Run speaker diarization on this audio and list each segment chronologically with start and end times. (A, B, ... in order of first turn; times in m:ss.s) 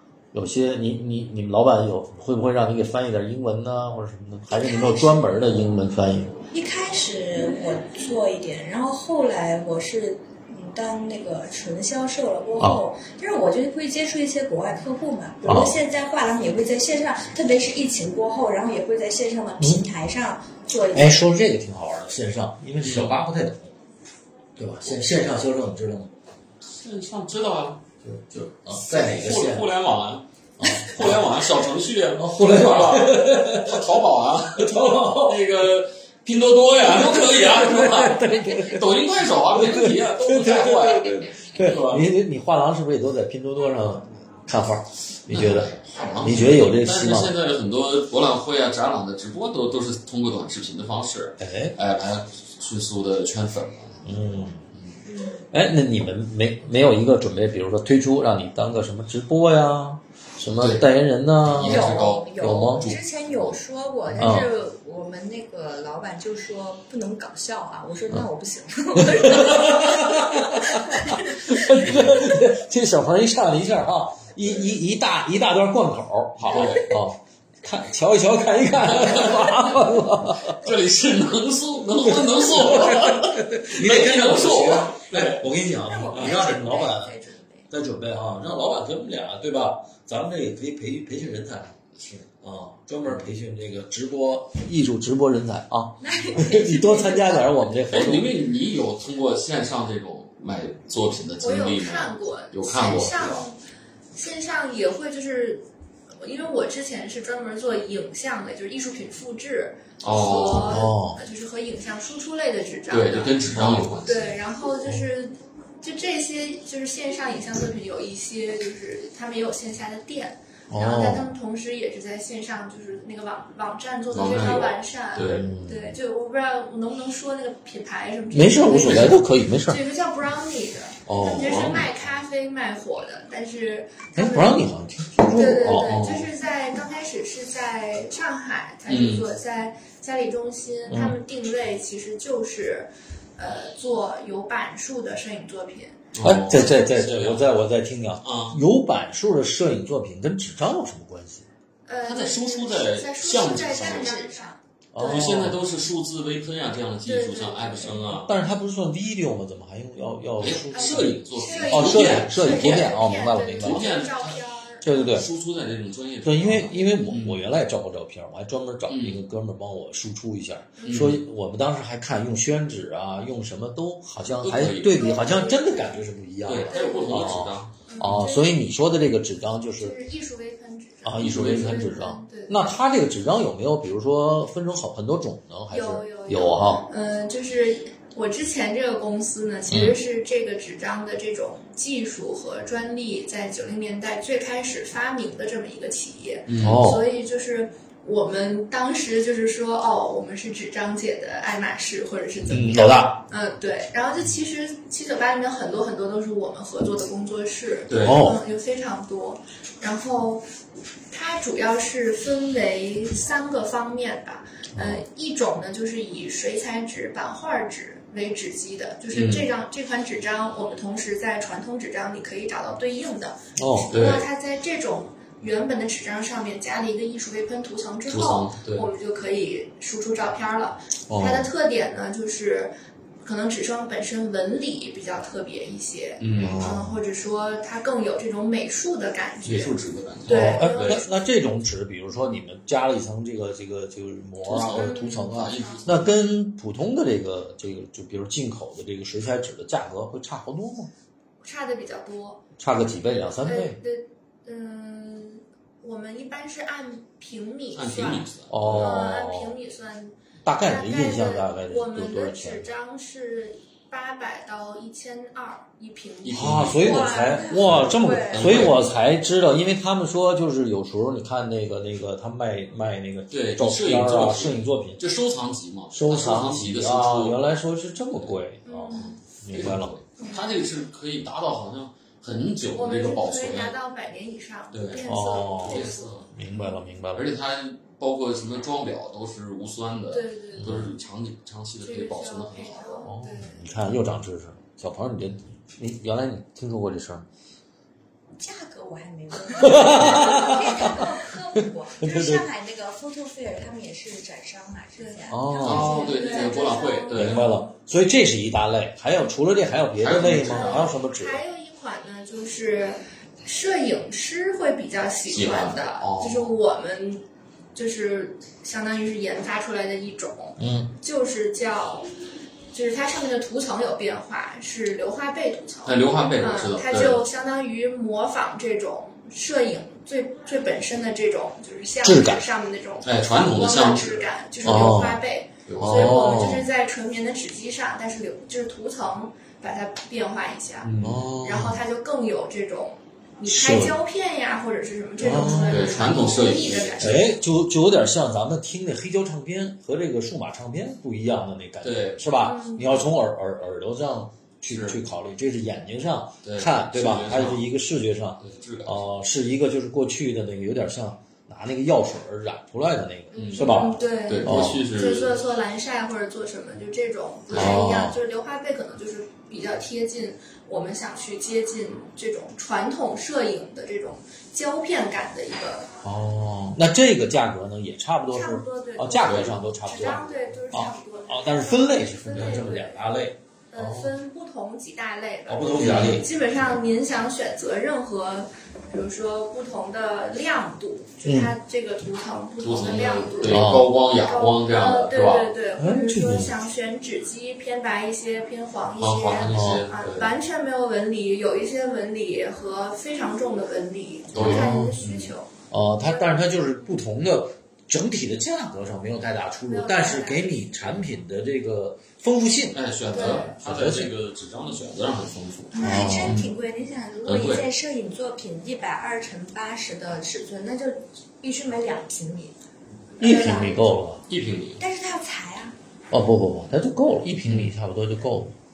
0:00.3-0:06.4 A
0:04.5-0:05.6 B
0:06.5-0:21.2 B
0:15.4-0:15.8 A
0:20.9-0:23.8 A
0:22.8-0:23.2 C
0:24.6-0:26.1 A
0:26.6-0:27.9 C
0:28.0-0:29.7 A
0:28.5-0:42.1 C
0:30.6-0:31.4 A
0:32.1-0:33.9 A
0:34.6-0:35.4 A
0:36.8-0:38.9 A
0:39.5-0:47.3 A
0:45.3-0:54.0 C
0:51.4-0:51.7 A
0:54.0-0:54.6 A
0:54.7-0:55.0 C
0:55.0-0:55.4 B
0:55.5-1:02.9 A
1:00.5-1:00.9 C
1:01.4-1:03.6 C
1:01.6-1:12.2 B
1:04.2-1:04.5 A
1:09.0-1:20.6 A
1:16.4-1:16.9 C
1:18.9-1:19.6 C
1:20.4-1:25.4 C
1:22.0-1:27.1 A
1:25.8-1:27.7 B
1:27.7-1:38.3 A
1:32.0-1:32.2 C
1:36.0-1:37.5 B
1:37.9-1:43.4 C
1:41.4-1:43.6 D
1:44.1-1:53.4 D
1:50.0-1:50.9 C
1:50.4-1:51.2 A
1:52.9-1:54.3 C
1:53.5-1:53.9 A
1:54.0-2:14.7 D
2:00.7-2:01.3 A
2:04.1-2:05.5 C
2:05.2-2:06.0 A
2:08.3-2:09.8 A
2:08.8-2:09.2 C
2:11.1-2:11.9 A
2:11.5-2:11.9 C
2:14.1-2:16.3 A
2:15.2-2:26.9 D
2:18.9-2:19.2 C
2:20.9-2:21.2 A
2:26.1-2:27.5 C
2:26.2-2:31.4 A
2:28.2-2:28.6 C
2:31.8-2:35.3 D
2:32.0-2:34.2 C
2:33.9-2:34.4 B
2:34.9-2:35.6 A
2:35.0-2:38.3 C
2:37.0-2:38.2 D
2:38.1-2:43.9 A
2:40.4-2:43.0 C
2:40.7-2:45.1 D
2:43.6-2:47.4 C
2:44.8-2:45.3 A
2:46.2-3:00.0 A
2:48.9-2:49.2 C
2:50.8-2:51.1 D
2:50.8-2:51.2 C
2:54.4-2:55.1 C
2:54.9-2:56.0 D
2:56.4-2:58.2 C
2:56.7-2:58.6 D
2:59.8-3:02.7 D
3:01.0-3:06.9 A
3:01.2-3:01.9 C
3:05.7-3:30.4 D
3:09.7-3:10.0 A
3:16.5-3:16.8 C
3:16.6-3:17.1 A
3:22.5-3:23.2 A
3:27.9-3:28.2 C
3:28.0-3:28.4 A
3:31.1-4:01.2 D
3:34.7-3:35.0 A
3:39.1-3:39.5 C
3:43.6-3:44.0 A
3:43.9-3:44.3 C
3:48.1-3:48.9 C
3:51.1-3:51.5 A
3:56.2-3:56.8 C
3:56.4-3:57.0 A
3:59.4-4:01.0 C
4:00.2-4:10.9 A
4:04.4-4:06.2 C
4:04.7-4:05.8 D
4:11.4-4:12.4 D
4:12.6-4:13.8 A
4:13.4-4:28.7 D
4:17.7-4:19.0 C
4:18.5-4:19.6 A
4:20.4-4:22.7 A
4:26.2-4:28.8 C
4:26.3-4:35.0 A
4:27.3-4:27.6 B
4:33.3-4:37.4 C
4:35.9-4:39.9 A
4:38.6-4:39.2 D
4:38.9-4:43.8 C
4:42.7-4:46.3 D
4:44.7-4:46.3 C
4:45.0-4:47.3 A
4:47.1-4:53.0 C
4:50.1-4:50.7 D
4:50.6-4:50.9 A
4:51.8-4:53.7 D
4:53.0-4:57.2 A
4:58.4-5:06.9 B
4:59.5-5:01.3 A
5:02.0-5:02.4 A
5:05.0-5:07.6 D
5:05.3-5:06.1 A
5:05.6-5:07.5 C
5:07.1-5:11.4 A
5:10.0-5:10.9 C
5:10.3-5:22.1 D
5:15.3-5:16.5 C
5:20.6-5:20.9 A
5:22.7-5:40.9 D
5:25.8-5:27.2 C
5:32.0-5:32.5 A
5:33.0-5:35.0 C
5:34.6-5:35.2 A
5:35.6-5:36.2 C
5:35.8-5:36.7 A
5:40.8-5:41.2 C
5:41.0-5:41.8 A
5:41.4-5:47.4 D
5:43.4-5:44.0 A
5:45.2-5:46.3 A
5:45.5-5:47.2 C
5:47.0-6:04.8 A
5:51.8-5:52.2 C
5:52.3-5:53.1 D
5:54.7-5:55.0 C
5:56.4-5:57.7 C
5:58.4-5:59.0 C
6:03.3-6:15.9 D
6:03.3-6:05.4 C
6:07.5-6:07.9 C
6:07.5-6:08.2 A
6:16.0-6:24.1 A
6:18.3-6:23.0 D
6:19.2-6:20.2 C
6:22.3-6:22.6 C
6:23.7-6:45.5 D
6:25.4-6:26.3 A
6:25.8-6:26.2 C
6:31.2-6:31.5 A
6:32.6-6:35.5 C
6:33.5-6:33.9 A
6:35.8-6:36.6 A
6:39.0-6:40.3 C
6:39.5-6:39.8 A
6:44.3-6:45.3 C
6:44.3-6:45.0 A
6:45.7-6:54.1 A
6:49.7-6:50.9 D
6:52.7-6:56.5 C
6:53.1-6:53.5 D
6:55.7-6:56.1 D
6:55.7-7:02.6 B
6:55.8-6:56.4 A
6:57.2-6:57.6 C
7:03.2-7:03.8 D
7:03.2-7:03.8 B
7:03.2-7:04.2 A
7:04.3-7:04.8 C
7:04.8-7:05.8 B
7:06.1-7:08.5 A
7:07.4-7:07.7 C